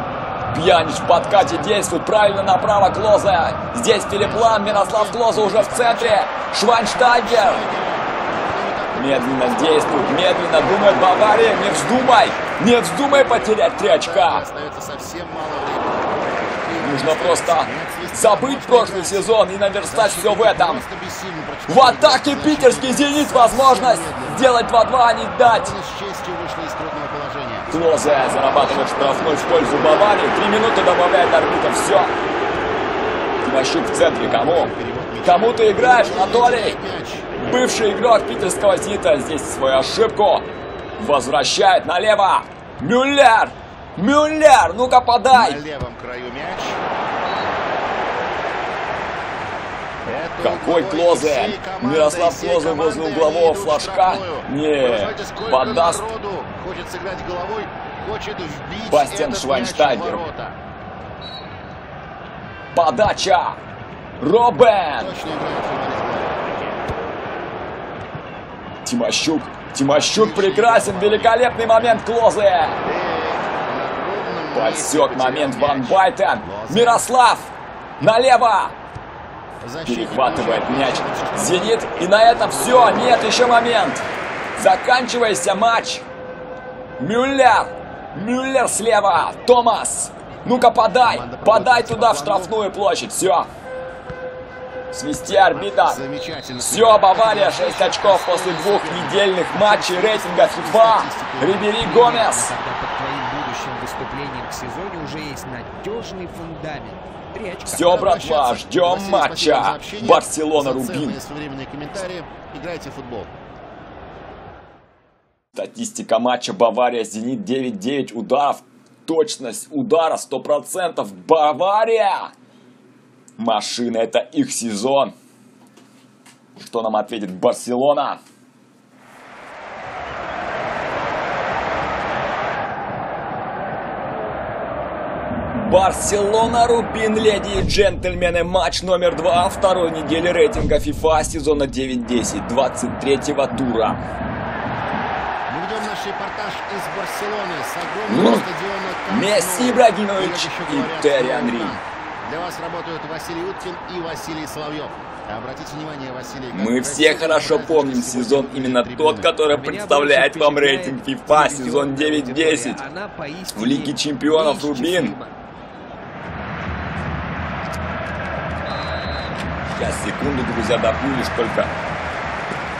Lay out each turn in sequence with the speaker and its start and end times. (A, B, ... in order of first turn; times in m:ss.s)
0:00.5-0:07.6 A
0:04.2-0:06.3 B
0:06.9-0:24.5 B
0:08.9-0:14.4 A
0:16.8-0:20.8 A
0:21.7-0:25.7 A
0:25.4-0:27.8 B
0:27.7-0:32.1 A
0:28.4-0:30.2 B
0:33.4-0:34.7 A
0:34.2-0:37.3 B
0:35.2-0:36.8 A
0:37.4-0:40.4 A
0:41.0-0:45.6 A
0:45.3-0:46.8 B
0:50.0-1:00.6 B
0:50.4-0:56.0 A
0:58.9-1:00.2 A
1:02.8-1:03.6 A
1:04.2-1:05.1 A
1:04.9-1:06.8 B
1:08.8-1:12.8 A
1:09.9-1:12.0 B
1:12.8-1:17.0 B
1:14.5-1:18.8 A
1:19.6-1:23.1 B
1:19.8-1:24.0 A
1:24.6-1:26.0 A
1:27.0-1:33.5 A
1:31.0-1:32.6 B
1:34.9-1:36.0 A
1:35.3-1:41.8 B
1:36.6-1:42.5 A
1:41.8-1:48.0 C
1:47.7-1:51.2 A
1:47.8-1:53.3 B
1:55.6-2:02.3 A
2:03.4-2:05.1 A
2:06.6-2:08.2 A
2:15.5-2:24.0 A
2:25.5-2:39.4 B
2:28.1-2:28.5 A
2:29.1-2:31.8 A
2:36.5-2:42.8 A
2:39.5-2:45.3 C
2:43.5-2:45.2 A
2:49.8-2:51.7 A